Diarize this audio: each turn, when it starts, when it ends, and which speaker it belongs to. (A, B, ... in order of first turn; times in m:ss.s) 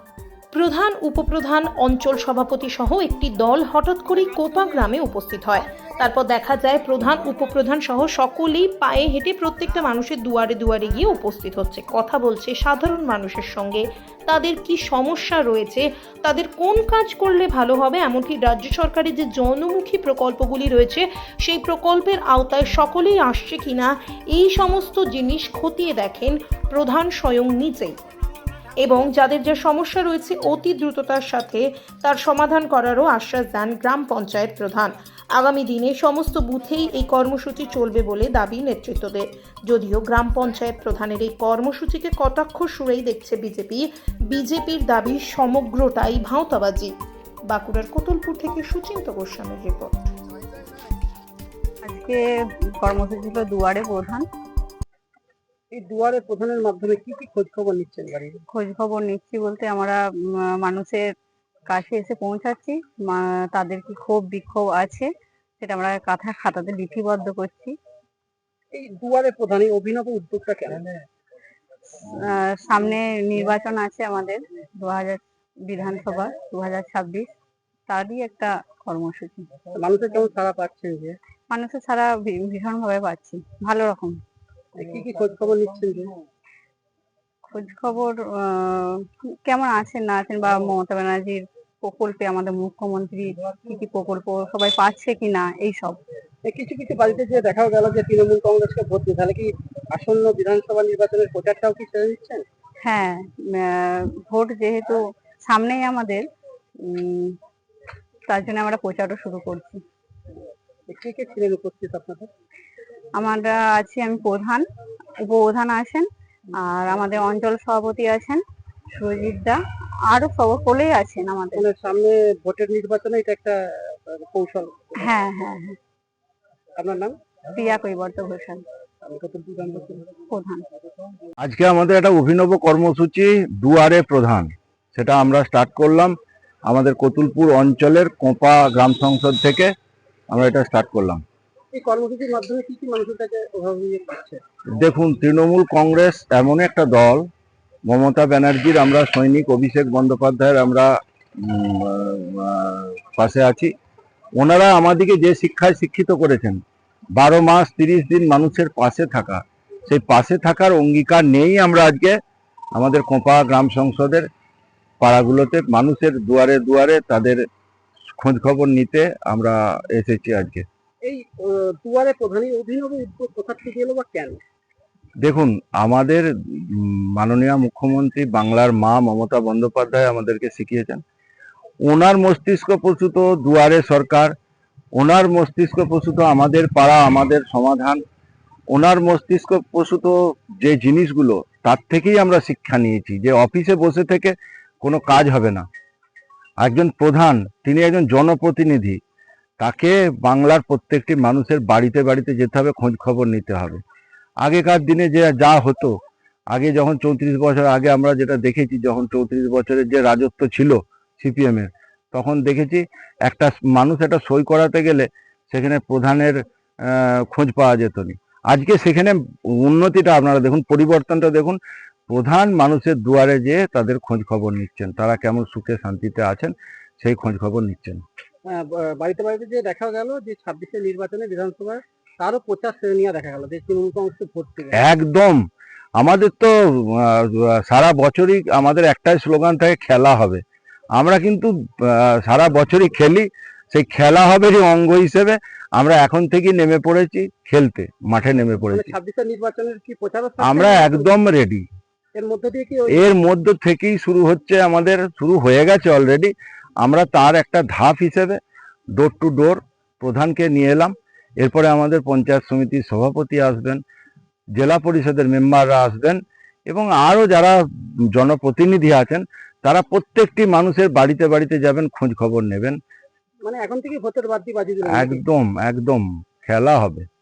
0:00.5-0:28.0 A
0:28.8-0:46.9 A
0:47.5-0:50.1 A
0:51.9-0:54.2 B
0:55.7-0:58.4 C
0:58.5-1:01.0 B
1:01.7-1:05.1 B
1:05.6-1:07.7 B
1:08.7-1:11.0 C
1:12.1-1:17.3 B
1:17.9-1:19.4 B
1:19.7-1:21.2 C
1:21.5-1:24.2 B
1:24.8-1:26.1 C
1:27.5-1:36.0 B
1:36.4-1:42.4 C
1:42.8-1:46.3 B
1:46.9-1:47.4 B
1:48.3-1:49.8 B
1:50.9-1:52.3 C
1:53.2-1:54.6 B
1:55.2-1:56.1 B
1:56.6-1:58.4 B
1:59.0-1:59.6 B
2:00.1-2:01.7 B
2:01.5-2:04.9 C
2:05.0-2:05.8 B
2:06.8-2:07.2 C
2:07.6-2:08.6 B
2:09.0-2:10.1 C
2:10.3-2:10.6 B
2:11.4-2:16.2 D
2:16.7-2:19.7 D
2:20.3-2:21.2 D
2:21.7-2:24.4 C
2:24.8-2:27.2 D
2:27.9-2:30.9 D
2:31.4-2:33.7 D
2:34.4-2:36.6 D
2:37.2-2:42.1 D
2:42.8-2:44.3 D
2:45.0-2:47.4 D
2:48.1-2:50.6 D
2:51.0-2:54.4 C
2:55.2-3:01.0 D
3:01.8-3:04.3 D
3:05.0-3:08.0 D
3:08.7-3:15.6 D
3:16.6-3:19.0 D
3:19.6-3:23.8 D
3:24.4-3:26.0 D
3:26.5-3:41.6 D
3:42.1-3:48.0 D
3:48.4-3:54.9 C
3:54.7-3:55.4 D
3:56.0-4:00.4 D
4:01.0-4:08.9 D
4:08.7-4:11.1 C
4:10.4-4:11.6 D
4:12.2-4:13.0 C
4:12.9-4:18.4 D
4:19.0-4:23.8 D
4:24.6-4:27.6 D
4:28.1-4:32.8 D
4:33.4-4:35.2 C
4:34.9-4:37.1 D